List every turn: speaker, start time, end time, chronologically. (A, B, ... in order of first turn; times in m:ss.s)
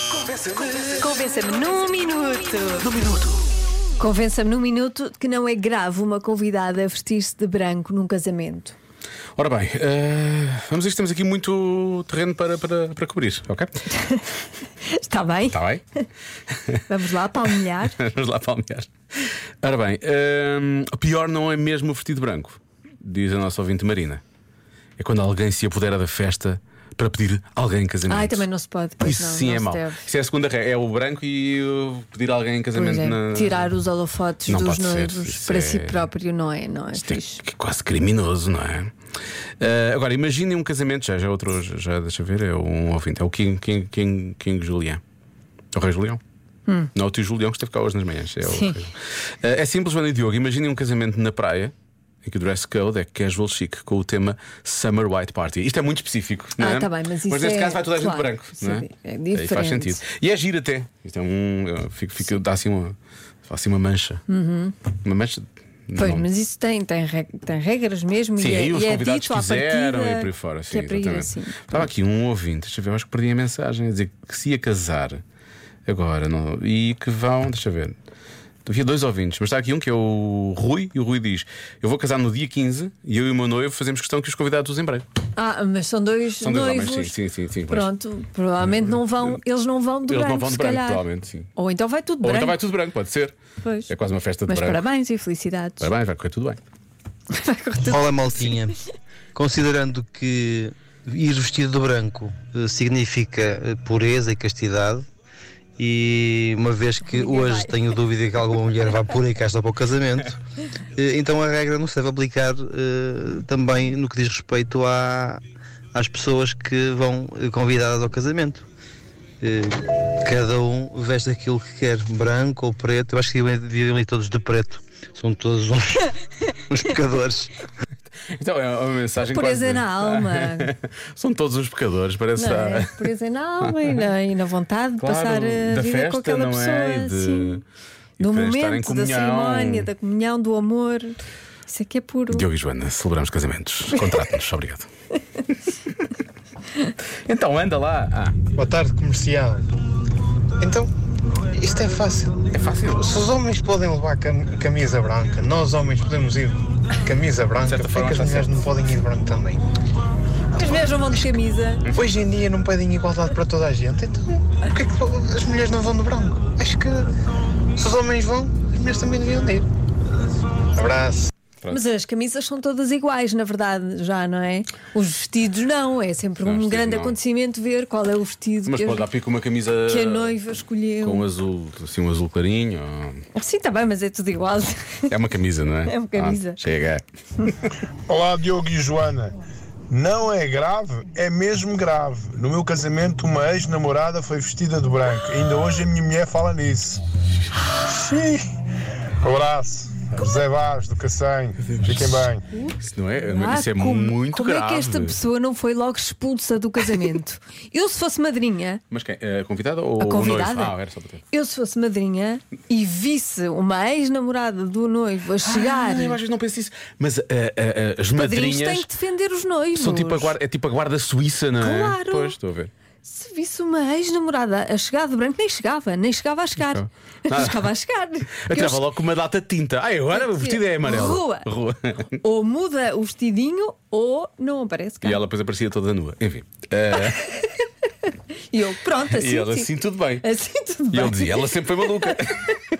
0:00.3-0:00.7 A
0:01.0-0:03.0 B
0:04.0-0:08.7 B
0:09.4-0:13.7 A
0:14.8-0:15.6 B
0:15.5-0:15.8 A
0:16.5-0:16.8 A
0:16.9-0:18.0 B
0:17.9-0:24.2 A
0:25.0-0:28.4 A
0:28.1-0:30.0 B
0:29.0-0:33.7 A
0:32.7-0:37.4 B
0:34.5-0:36.1 A
0:37.0-0:38.9 A
0:39.6-0:45.0 A
0:45.7-0:46.2 A
0:46.9-1:04.2 A
0:48.4-0:48.7 B
0:56.6-1:00.0 B
1:04.3-1:04.7 B
1:05.0-1:06.2 A
1:06.0-1:11.7 B
1:08.4-1:15.2 A
1:15.8-1:18.0 A
1:18.6-1:25.1 A
1:25.4-1:27.2 B
1:26.4-1:27.9 A
1:27.7-1:31.0 B
1:30.1-1:31.5 A
1:31.6-1:32.6 B
1:32.2-1:33.3 A
1:33.6-1:33.9 B
1:33.9-1:34.8 A
1:34.5-1:35.9 B
1:35.8-1:36.6 A
1:37.3-1:38.6 B
1:37.8-1:38.7 C
1:39.3-1:45.0 C
1:45.8-1:50.4 C
1:47.1-1:47.9 B
1:50.9-1:55.4 C
1:55.9-1:58.6 C
1:59.4-2:06.1 C
2:06.7-2:07.5 C
2:08.2-2:13.1 A
2:09.3-2:10.7 B
2:12.4-2:17.6 B
2:13.6-2:13.9 A
2:15.0-2:17.6 A
2:18.2-2:22.5 B
2:18.2-2:19.9 A
2:22.3-2:24.9 A
2:27.2-2:28.4 A
2:28.5-2:29.6 D
2:30.6-2:30.9 D
2:31.5-2:39.6 D
2:32.5-2:33.2 A
2:37.6-2:38.6 A
2:40.5-2:41.9 B
2:40.6-2:47.1 D
2:47.8-2:49.7 D
2:50.7-2:51.3 D
2:51.7-2:59.1 B
2:56.4-2:57.2 A
2:58.6-3:00.4 A
2:59.9-3:01.3 B
3:01.0-3:03.2 A
3:03.3-3:05.1 B
3:05.1-3:07.0 A
3:05.8-3:06.6 B
3:08.1-3:09.3 E
3:09.9-3:17.0 E
3:17.8-3:18.5 E
3:19.2-3:22.4 E
3:21.6-3:25.2 A
3:22.5-3:28.8 B
3:28.9-3:31.2 A
3:30.0-3:30.8 B
3:31.3-3:36.2 B
3:35.4-3:38.9 A
3:38.2-3:40.3 B
3:39.8-3:42.7 A
3:41.6-3:42.4 B
3:43.0-3:48.9 B
3:46.7-3:47.7 A
3:48.4-3:52.2 A
3:50.1-3:51.5 B
3:52.2-3:55.2 B
3:55.0-3:57.2 A
3:57.0-3:57.5 B
3:58.5-4:02.4 B
3:59.0-4:00.2 A
4:00.9-4:02.6 A